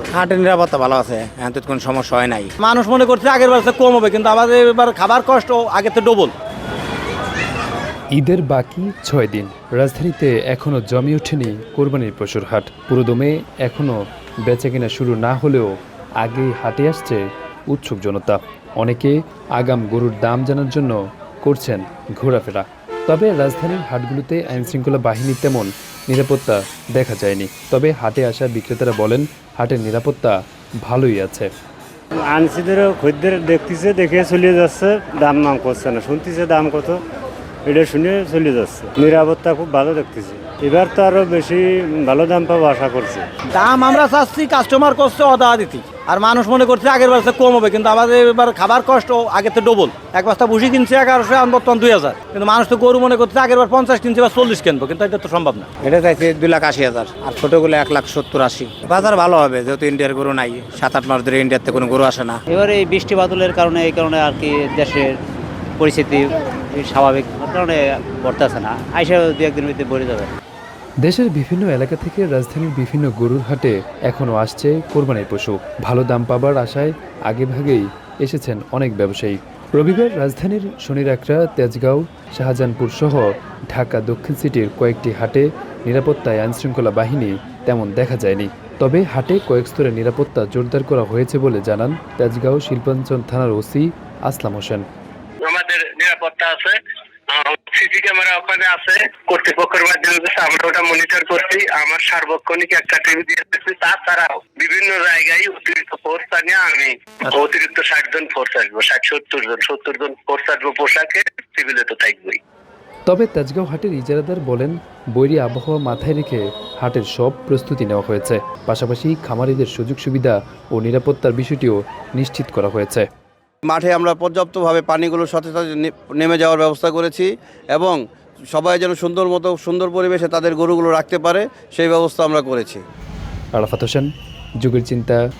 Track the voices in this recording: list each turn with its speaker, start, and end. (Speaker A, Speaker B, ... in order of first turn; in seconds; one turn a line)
Speaker A: 0.1-2.5
Speaker B: 2.6-6.3
Speaker C: 8.2-31.5
Speaker D: 32.2-37.0
Speaker D: 37.6-43.3
Speaker B: 43.5-55.7
Speaker A: 55.8-62.4
Speaker E: 62.5-65.1
Speaker E: 65.8-70.3
Speaker C: 71.0-94.8
Speaker F: 95.4-112.4
Speaker C: 113.0-123.1
Speaker G: 123.7-128.0
Speaker G: 128.5-132.8
Speaker C: 133.5-134.1
Speaker C: 134.6-135.2